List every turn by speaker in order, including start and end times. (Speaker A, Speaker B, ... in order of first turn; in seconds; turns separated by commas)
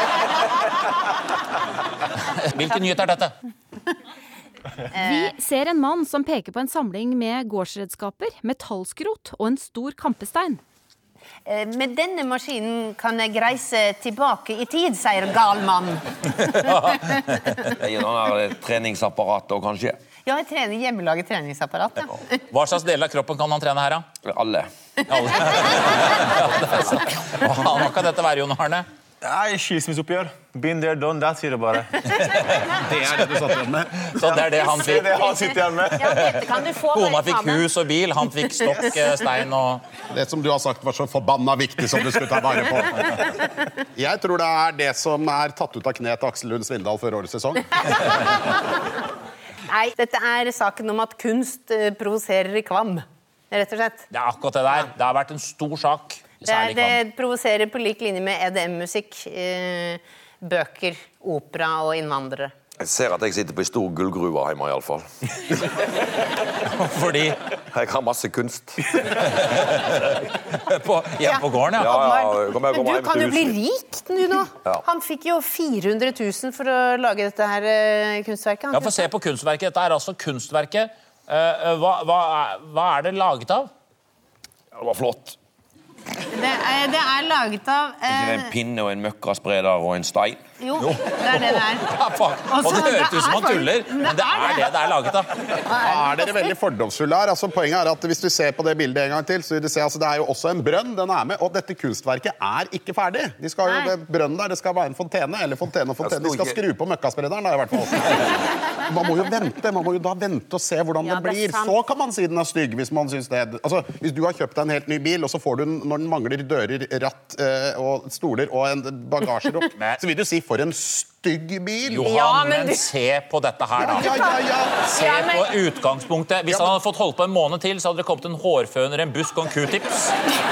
Speaker A: 2.3-3.3, Speaker B: 4.9-5.3, Speaker C: 5.0-10.6, Speaker B: 11.5-17.2, Speaker A: 16.4-17.6, Speaker D: 17.8-20.0, Speaker B: 20.3-22.1, Speaker A: 22.5-24.1, Speaker D: 24.2-24.7, Speaker A: 25.1-28.9, Speaker E: 29.2-32.2, Speaker A: 32.5-32.7, Speaker F: 32.9-34.1, Speaker A: 34.1-35.2, Speaker E: 34.2-36.2, Speaker B: 35.1-37.7, Speaker A: 36.0-36.4, Speaker A: 36.9-39.8, Speaker F: 40.1-43.3, Speaker F: 43.9-47.9, Speaker B: 49.7-54.1, Speaker A: 54.1-57.0, Speaker B: 56.5-62.5, Speaker D: 62.8-65.6, Speaker A: 66.7-67.4, Speaker D: 67.7-69.2, Speaker A: 69.2-71.9, Speaker B: 71.2-79.1, Speaker D: 71.8-73.6, Speaker A: 78.7-83.7, Speaker D: 84.7-85.4, Speaker B: 86.3-88.5, Speaker D: 88.1-90.4, Speaker B: 90.6-91.9, Speaker A: 90.8-95.3, Speaker B: 92.5-94.9, Speaker B: 95.6-96.3, Speaker F: 95.8-122.1, Speaker D: 106.0-106.6, Speaker B: 111.0-111.8, Speaker A: 121.9-124.1, Speaker B: 122.0-122.9, Speaker F: 123.8-124.9, Speaker A: 124.8-130.2, Speaker B: 124.9-125.6